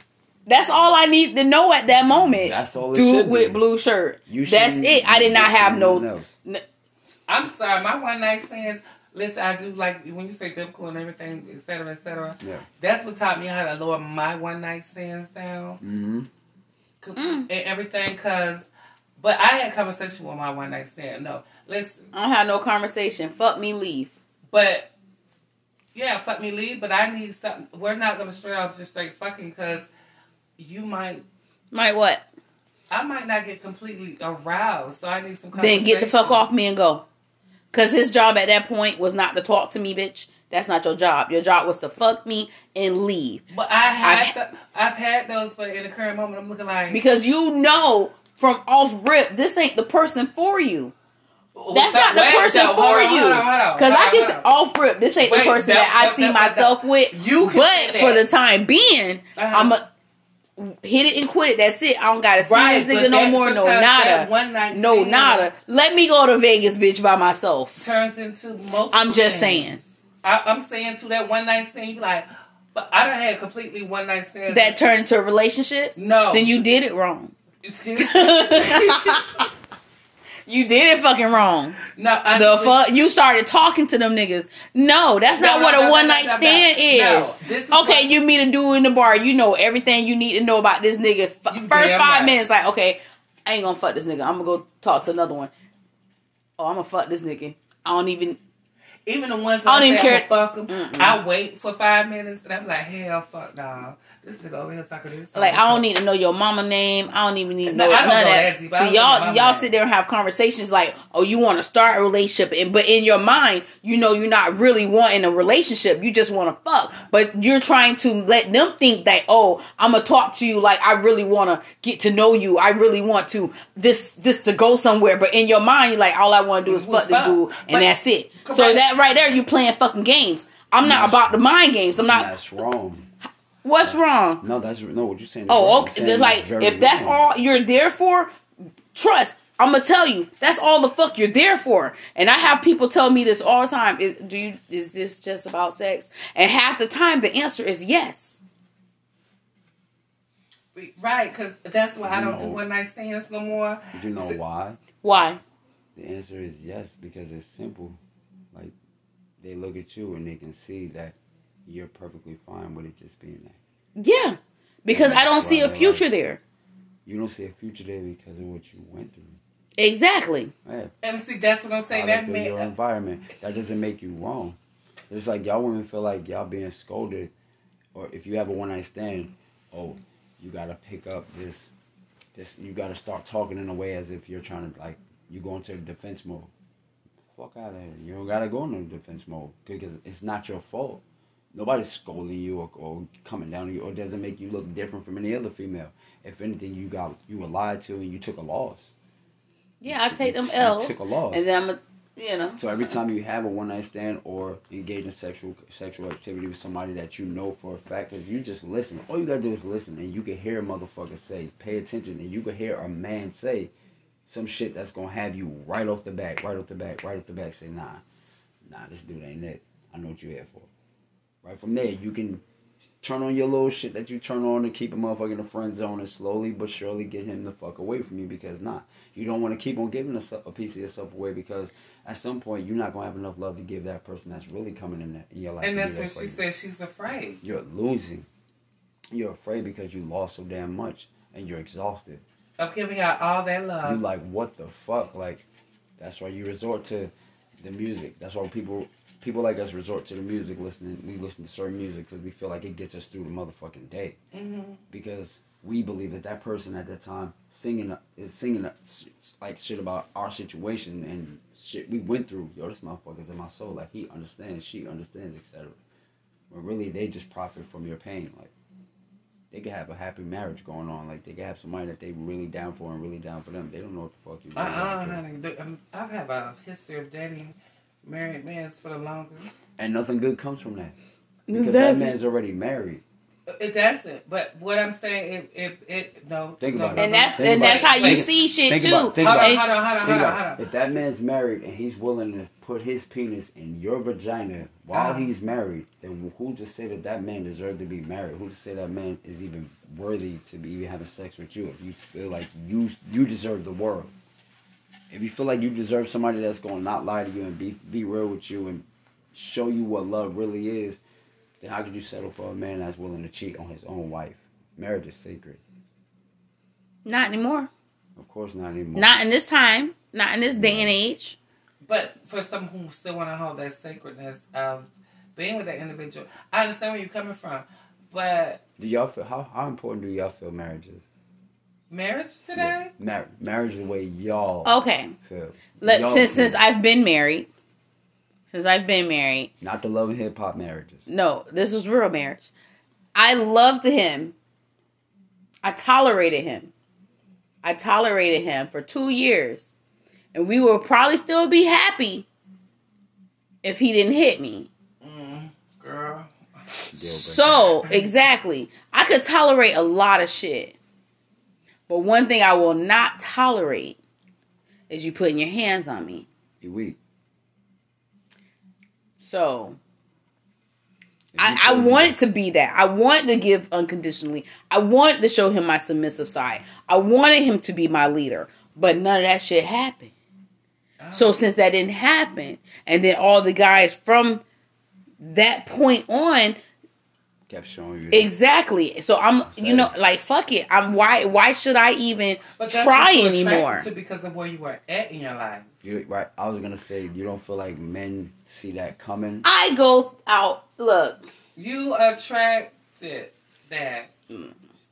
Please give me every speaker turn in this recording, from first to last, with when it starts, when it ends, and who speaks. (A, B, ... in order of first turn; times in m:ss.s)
0:00.5-0:06.6 A
0:02.2-0:03.6 B
0:04.3-0:06.3 B
0:07.3-0:15.8 C
0:12.4-0:12.7 B
0:15.8-0:16.3 B
0:17.0-0:22.1 C
0:17.2-0:17.5 A
0:22.1-0:24.1 A
0:24.5-0:24.9 C
0:25.9-0:29.9 C
0:30.6-0:31.2 C
0:31.7-0:32.2 A
0:32.9-0:36.5 C
0:35.6-0:37.0 A
0:37.7-0:43.4 A
0:43.5-0:47.0 C
0:44.0-0:44.3 A
0:46.9-0:50.9 A
0:51.6-0:54.6 C
0:51.7-0:59.8 A
0:55.2-0:58.3 C
0:59.4-0:59.7 C
1:00.6-1:07.8 A
1:02.4-1:05.5 C
1:07.8-1:14.8 C
1:08.9-1:09.8 A
1:14.5-1:17.3 A
1:16.0-1:16.6 C
1:17.6-1:19.4 C
1:18.0-1:19.5 A
1:20.5-1:21.8 A
1:22.0-1:22.8 C
1:22.3-1:35.5 A
1:25.3-1:28.1 C
1:31.5-1:32.4 C
1:36.6-1:38.4 A
1:39.1-1:45.8 C
1:39.7-1:41.2 A
1:45.4-2:12.3 A
1:47.7-1:49.7 C
2:06.7-2:08.8 C
2:10.8-2:11.4 B
2:12.0-2:13.1 B
2:13.6-2:14.4 A
2:13.8-2:17.2 B
2:15.5-2:18.3 A
2:18.9-2:28.4 A
2:30.8-2:34.4 C
2:32.0-2:32.6 B
2:33.9-2:34.8 B
2:35.0-2:35.4 A
2:36.0-2:38.0 B
2:39.4-2:43.6 B
2:44.0-2:46.4 A
2:44.9-2:46.1 B
2:47.0-2:49.4 B
2:49.8-2:50.5 A
2:50.6-2:50.9 B
2:51.0-2:52.7 C
2:51.9-2:54.6 B
2:55.1-2:57.3 B
2:57.9-3:01.7 B
3:02.3-3:06.5 B
3:07.3-3:11.0 B
3:11.5-3:18.9 B
3:19.8-3:22.6 A
3:19.9-3:21.5 B
3:22.6-3:33.7 B
3:34.3-3:38.0 B
3:38.6-3:40.7 B
3:41.4-3:42.4 B
3:43.0-3:56.4 B
3:55.6-3:57.4 C
3:57.4-3:58.3 B
3:59.1-4:02.2 B
4:02.6-4:04.0 C
4:03.8-4:05.4 B
4:06.0-4:14.2 B
4:14.3-4:14.8 C
4:14.9-4:25.8 B
4:26.5-4:28.5 B
4:29.5-4:35.2 B
4:34.6-4:39.5 C
4:39.8-4:41.0 B
4:41.5-4:42.2 A
4:41.5-4:43.0 B
4:43.5-4:48.3 C
4:46.6-5:04.1 B
4:47.0-4:49.6 A
4:49.2-4:50.6 C
4:54.9-4:55.3 C
5:05.1-5:11.0 B
5:11.6-5:15.6 B
5:17.0-5:17.7 A
5:18.2-5:19.2 B
5:19.0-5:21.4 A
5:20.5-5:20.9 B
5:21.8-5:28.6 C
5:28.8-5:31.0 B
5:31.9-5:32.9 C
5:32.6-5:36.6 B
5:34.6-5:35.1 A
5:35.8-5:37.5 A
5:38.5-5:39.5 A
5:39.6-5:41.0 B
5:41.1-5:42.5 A
5:43.2-5:44.4 A
5:45.6-5:46.7 A
5:47.6-5:49.7 A
5:50.3-5:52.3 A
5:53.6-5:54.7 A
5:55.0-5:56.9 C
5:56.9-5:57.6 B
5:57.1-6:00.8 A
5:57.8-5:58.1 C
6:01.9-6:04.0 A
6:04.9-6:06.3 A
6:06.6-6:07.0 B
6:09.2-6:09.8 A
6:11.3-6:12.2 B
6:11.4-6:20.1 A
6:21.0-6:21.4 C
6:21.2-6:24.4 A
6:25.2-6:26.6 A
6:27.5-6:28.3 B
6:28.1-6:33.9 A
6:29.4-6:29.9 B
6:32.6-6:35.7 C
6:35.8-6:39.4 B
6:39.4-6:41.2 A
6:41.6-6:44.1 C